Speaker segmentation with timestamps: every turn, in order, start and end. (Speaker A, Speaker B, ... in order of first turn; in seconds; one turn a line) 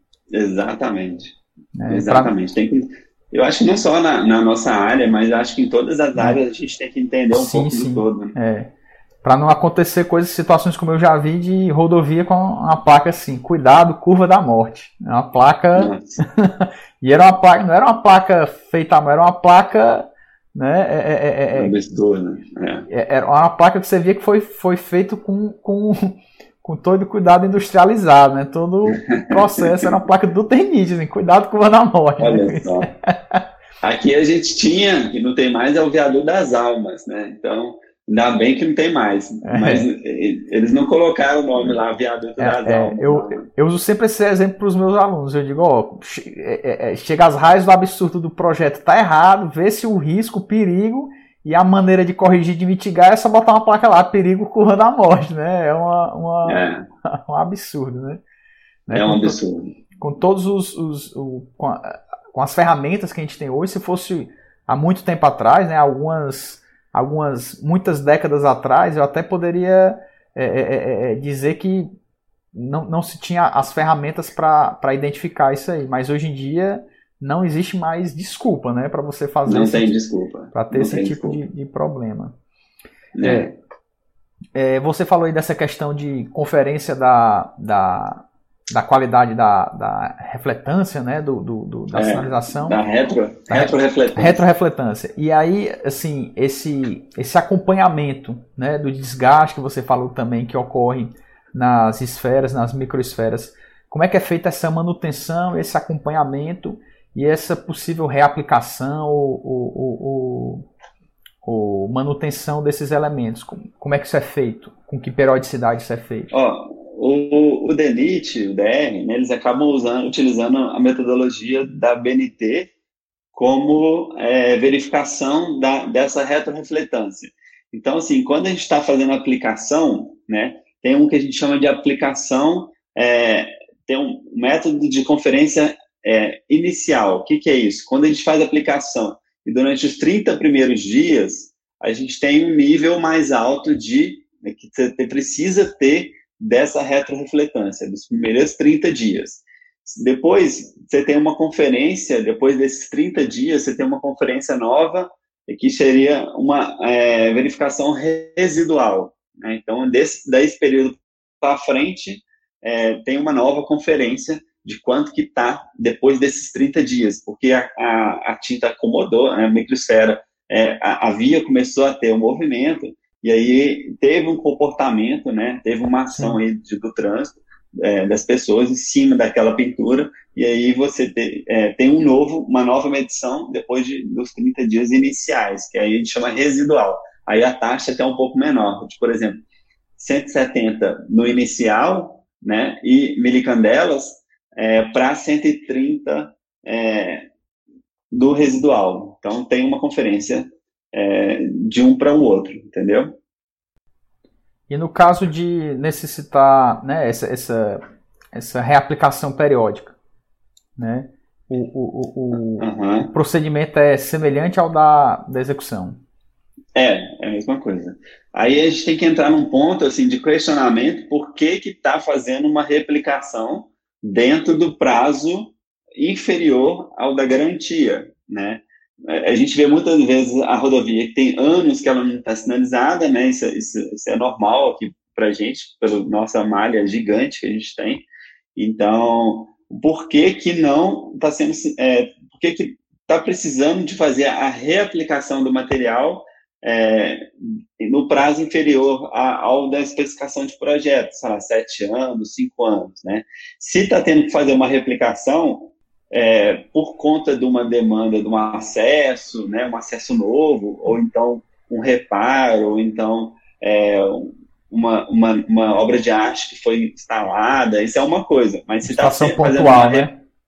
Speaker A: 0.3-1.4
Speaker B: 1.8-2.3
Speaker A: 1.9-8.4
Speaker B: 7.3-8.7
Speaker B: 9.2-21.8
Speaker A: 15.8-16.2
Speaker A: 21.5-22.9
Speaker B: 22.9-33.4
Speaker A: 28.9-30.0
Speaker A: 32.2-32.9
Speaker A: 33.8-43.5
Speaker B: 39.5-39.9
Speaker B: 42.4-58.2
Speaker A: 56.5-56.9
Speaker B: 58.9-59.4
Speaker A: 58.9-59.7
Speaker B: 60.0-71.9
Speaker B: 72.5-79.9
Speaker A: 79.5-81.4
Speaker B: 80.5-82.3
Speaker A: 83.2-83.5
Speaker B: 83.2-83.5
Speaker B: 84.5-92.8
Speaker A: 91.9-94.4
Speaker B: 93.5-110.7
Speaker B: 111.4-116.3
Speaker A: 116.3-122.7
Speaker A: 123.3-189.4
Speaker B: 176.2-176.4
Speaker A: 190.0-197.3
Speaker A: 198.1-203.2
Speaker B: 204.7-207.8
Speaker B: 208.3-209.9
Speaker B: 210.8-216.0
Speaker A: 212.6-213.2
Speaker A: 216.8-238.1
Speaker A: 238.6-247.3
Speaker A: 247.8-270.1
Speaker B: 268.9-270.1